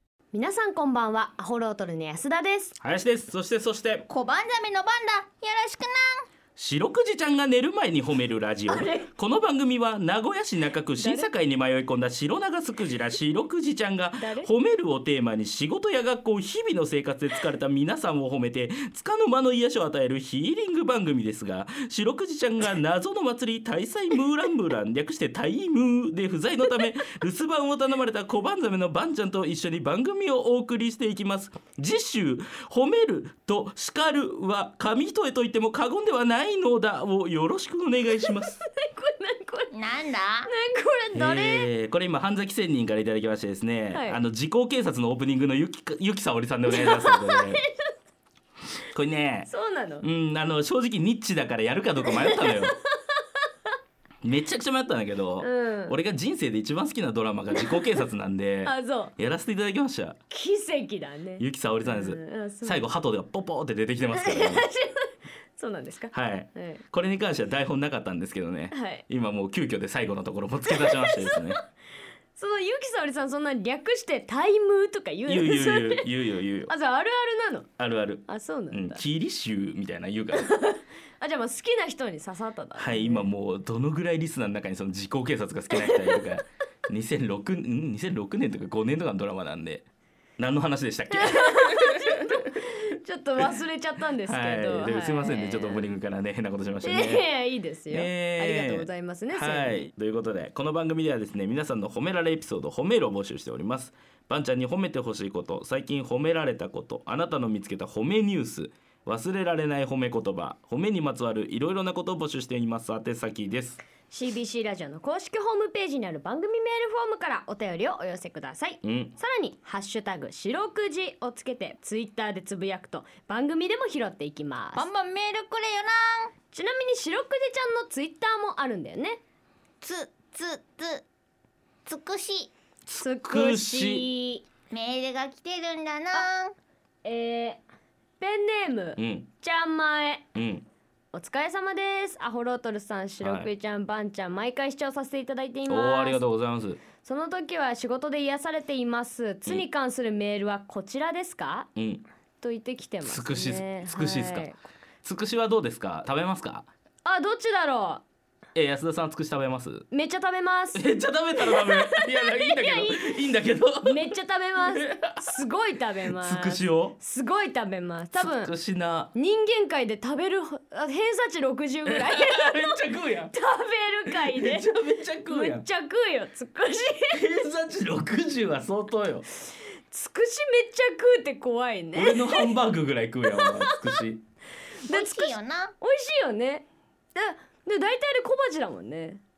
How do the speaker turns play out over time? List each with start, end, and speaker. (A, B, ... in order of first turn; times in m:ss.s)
0:00.3-0:02.8 A
0:02.8-0:04.0 B
0:04.1-0:06.2 C
0:06.6-0:38.6 B
0:08.7-0:09.1 A
0:11.0-0:11.3 A
0:14.2-0:14.5 A
0:38.2-0:39.7 A
0:39.7-0:40.5 C
0:40.4-0:41.7 A
0:41.1-0:47.6 B
0:43.9-0:44.2 A
0:46.6-0:47.9 A
0:48.9-0:49.5 B
0:49.5-0:50.0 A
0:50.0-0:52.7 B
0:52.0-0:52.8 A
0:54.2-1:00.2 B
0:55.4-0:56.0 A
0:57.5-0:58.0 A
0:58.6-0:59.1 A
1:00.3-1:02.8 A
1:01.4-1:04.7 B
1:04.1-1:06.8 A
1:06.1-1:11.6 B
1:08.7-1:09.0 A
1:10.7-1:11.4 A
1:12.4-1:16.1 A
1:15.3-1:16.7 B
1:16.7-1:17.7 A
1:17.8-1:20.5 B
1:18.3-1:19.0 A
1:20.3-1:23.3 A
1:22.8-1:29.8 B
1:25.7-1:26.3 A
1:30.4-1:32.4 B
1:31.1-1:35.9 A
1:34.2-1:37.3 B
1:36.8-1:39.8 A
1:37.9-1:53.8 B
1:54.1-2:04.9 A
1:58.8-1:59.1 B
2:04.8-2:06.3 C
2:06.5-2:09.2 A
2:09.8-2:11.0 C
2:11.8-2:12.5 C
2:12.8-2:14.1 B
2:13.0-2:14.4 A
2:14.7-2:16.5 C
2:17.0-2:17.6 A
2:18.2-2:20.2 A
2:19.0-2:19.3 B
2:20.3-2:20.6 B
2:21.1-2:26.2 A
2:23.2-2:23.5 B
2:25.6-2:26.8 B
2:27.0-2:31.7 A
2:31.8-2:32.0 B
2:32.4-2:34.6 A
2:33.0-2:34.5 B
2:35.0-2:36.7 B
2:37.0-2:38.0 A
2:38.5-2:39.8 B
2:39.9-2:40.8 A
2:40.7-2:44.1 B
2:41.4-2:43.2 A
2:43.8-2:48.5 A
2:44.7-2:45.4 B
2:46.1-2:47.0 B
2:48.2-2:49.1 B
2:49.1-2:57.2 A
2:51.8-2:53.3 B
2:54.1-2:55.6 B
2:57.1-2:59.2 B
2:59.9-3:02.6 A
3:01.9-3:04.2 B
3:03.3-3:04.0 A
3:04.9-3:05.7 C
3:04.9-3:09.2 A